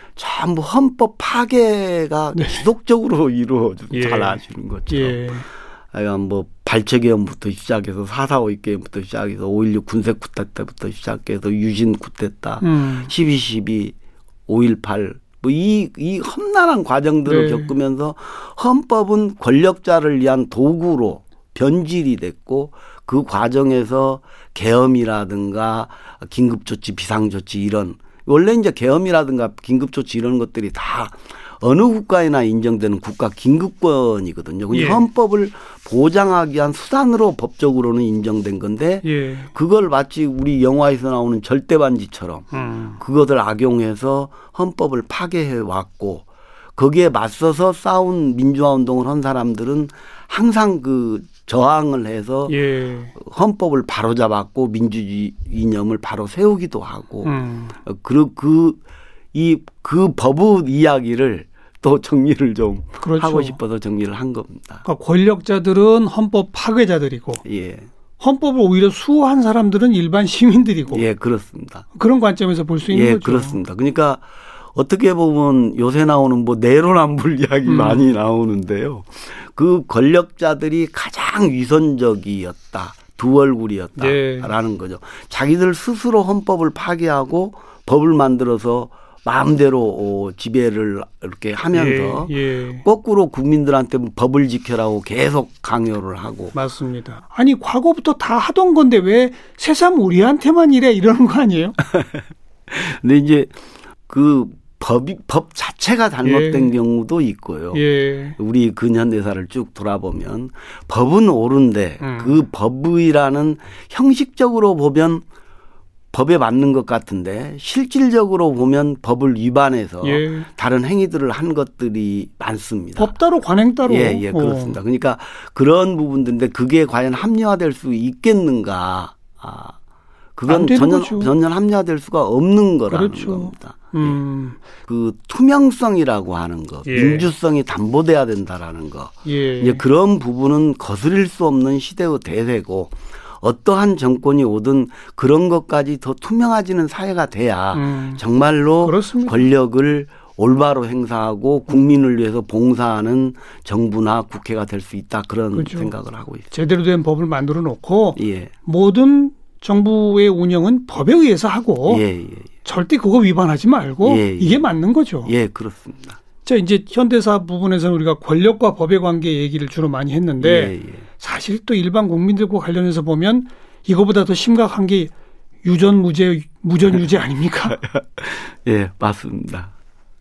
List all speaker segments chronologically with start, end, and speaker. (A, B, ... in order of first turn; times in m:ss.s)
0:00.2-0:05.3 A
0:02.4-0:02.6 B
0:03.9-0:05.5 B
0:05.9-0:13.9 A
0:12.6-0:13.1 B
0:14.5-0:46.2 A
0:17.3-0:17.7 B
0:34.7-0:35.0 B
0:39.0-0:39.5 B
0:42.5-0:43.0 B
0:46.8-0:52.6 A
0:52.5-0:53.1 B
0:53.2-0:57.3 A
0:57.2-0:57.8 B
0:57.8-0:58.8 A
0:59.3-1:04.8 A
1:03.0-1:03.6 B
1:04.8-1:07.4 B
1:07.4-1:07.9 A
1:08.2-1:11.0 B
1:10.9-1:11.8 A
1:12.0-1:13.6 B
1:12.9-1:36.5 A
1:17.7-1:18.1 B
1:24.0-1:24.5 B
1:31.7-1:32.8 B
1:36.5-1:41.8 B
1:42.7-1:43.5 A
1:44.1-1:47.8 A
1:46.2-1:46.7 B
1:47.7-1:48.4 B
1:48.4-1:55.2 A
1:52.0-1:52.4 B
1:56.1-2:03.1 A
2:00.0-2:00.5 B
2:03.0-2:04.8 B
2:03.9-2:09.8 A
2:10.4-2:14.2 A
2:10.5-2:11.3 B
2:12.9-2:14.7 B
2:14.9-2:36.5 A
2:16.9-2:17.3 B
2:19.2-2:19.8 B
2:27.7-2:28.2 B
2:28.8-2:29.5 B
2:35.5-2:35.9 B
2:36.5-2:42.0 B
2:38.2-2:38.5 A
2:41.9-2:42.6 A
2:42.6-2:45.3 B
2:44.0-2:44.7 A
2:45.2-2:46.2 A
2:46.4-2:55.1 B
2:50.4-2:51.0 A
2:55.6-2:57.8 B
2:57.8-2:59.7 A